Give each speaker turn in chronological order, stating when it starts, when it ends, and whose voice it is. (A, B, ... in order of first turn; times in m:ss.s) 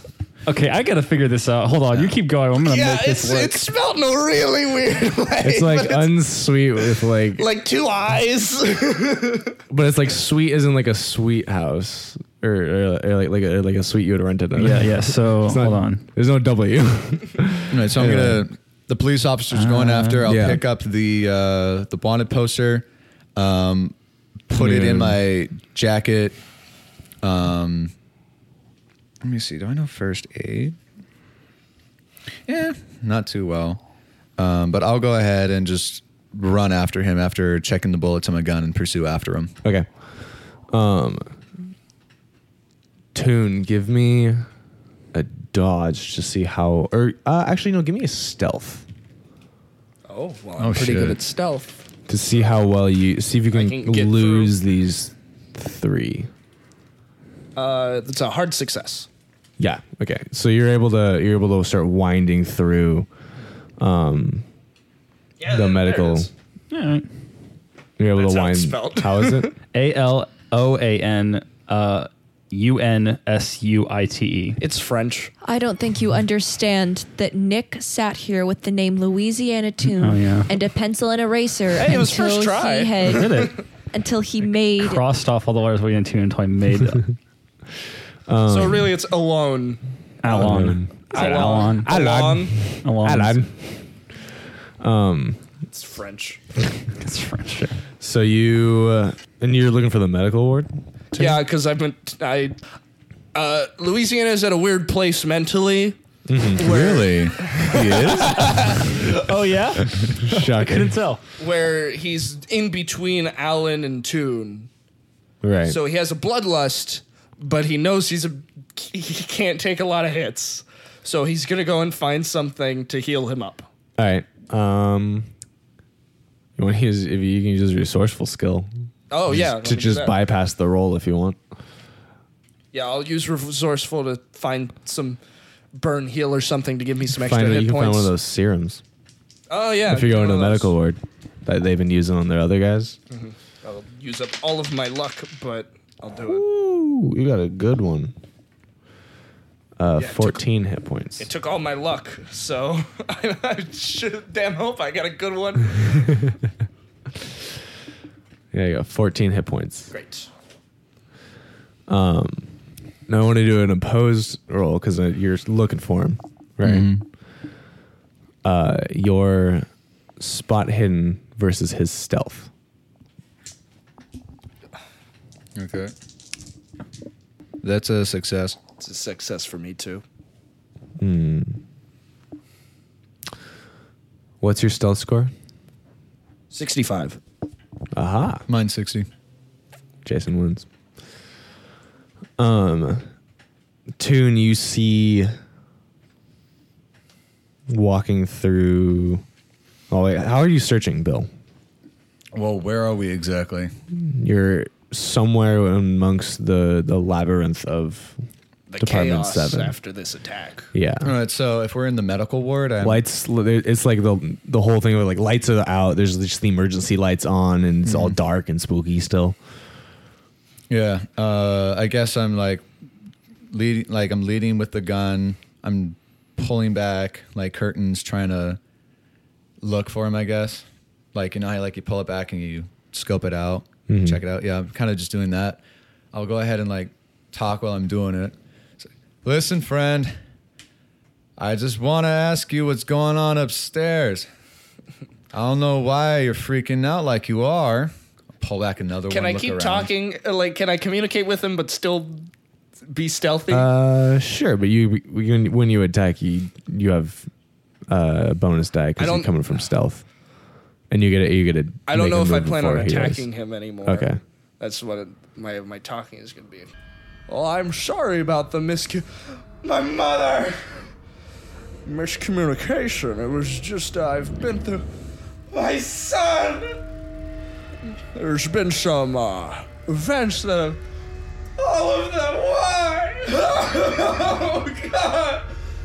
0:00.5-0:03.6 A
0:02.6-0:06.2 B
0:05.4-0:07.5 C
0:06.8-0:09.6 B
0:09.7-0:18.5 C
0:14.6-0:16.0 A
0:17.7-0:24.0 D
0:19.5-0:20.4 A
0:20.2-0:20.6 C
0:24.5-0:26.4 D
0:24.5-0:25.2 C
0:27.2-0:27.9 D
0:29.2-0:30.8 D
0:32.5-0:33.8 D
0:34.4-0:39.5 D
0:39.6-0:40.1 C
0:40.7-0:41.4 C
0:43.1-0:44.5 C
0:45.1-0:48.9 C
0:50.1-0:51.8 B
0:50.6-0:51.2 D
0:52.1-0:56.3 C
0:53.5-0:54.6 B
0:57.6-0:59.1 B
0:59.6-1:03.1 C
1:03.8-1:04.5 C
1:05.4-1:06.3 B
1:05.4-1:06.3 C
1:06.7-1:07.1 A
1:08.0-1:09.5 C
1:08.2-1:09.5 B
1:09.7-1:14.6 A
1:14.6-1:15.3 B
1:15.4-1:25.0 E
1:20.0-1:20.5 A
1:21.8-1:23.6 B
1:23.1-1:23.6 A
1:24.8-1:27.2 A
1:28.3-1:28.9 C
1:28.5-1:32.7 B
1:30.2-1:32.0 A
1:30.3-1:33.9 C
1:32.8-1:33.4 A
1:34.8-1:35.4 C
1:35.7-1:36.4 B
1:37.0-1:37.8 A
1:38.0-1:41.4 C
1:41.1-1:42.6 B
1:43.3-1:46.0 B
1:46.3-1:46.7 C
1:46.6-1:49.0 B
1:46.6-1:48.8 D
1:48.6-1:51.2 A
1:50.0-1:51.0 C
1:51.4-1:54.7 B
1:55.4-1:55.8 C
1:55.6-2:03.7 B
2:04.0-2:05.3 C
2:06.6-2:08.7 C
2:09.1-2:10.2 B
2:09.3-2:11.4 C
2:12.7-2:15.2 B
2:15.8-2:18.1 B
2:17.2-2:18.8 C
2:19.5-2:20.7 B
2:19.9-2:23.0 C
2:23.1-2:26.4 B
2:26.3-2:28.1 C
2:29.8-2:31.3 C
2:30.0-2:30.4 B
2:31.2-2:36.2 B
2:38.5-2:39.9 C
2:39.9-2:40.3 B
2:41.9-2:42.5 C
2:43.1-2:46.9 C
2:46.6-2:47.0 D
2:48.4-2:52.5 C
2:55.6-2:55.9 D
2:57.6-2:58.6 D
2:58.8-3:00.0 B
3:01.0-3:01.6 C
3:04.4-3:05.3 C
3:06.5-3:07.2 B
3:07.9-3:08.4 C
3:08.5-3:09.1 D
3:10.0-3:10.7 C
3:12.4-3:13.1 C
3:14.0-3:15.4 C
3:17.7-3:19.2 C
3:19.9-3:21.3 C
3:22.3-3:23.7 D
3:23.9-3:28.2 C
3:28.7-3:30.7 B
3:28.8-3:29.8 C
3:30.7-3:31.1 C
3:31.0-3:33.0 D
3:32.8-3:39.4 C
3:37.8-3:38.2 D
3:40.7-3:42.6 D
3:43.5-3:48.6 D
3:49.6-3:55.6 D
3:53.9-3:54.2 C
3:56.1-4:00.2 D
4:01.4-4:04.3 D
4:05.3-4:09.9 D
4:09.1-4:12.3 B
4:12.9-4:13.7 B
4:13.5-4:17.3 C
4:17.9-4:20.1 C
4:19.0-4:19.6 B
4:20.9-4:23.3 C
4:21.9-4:26.7 B
4:23.8-4:24.2 C
4:27.3-4:30.9 B
4:31.8-4:34.8 B
4:35.5-4:36.8 B
4:38.1-4:40.8 B
4:41.6-4:45.5 B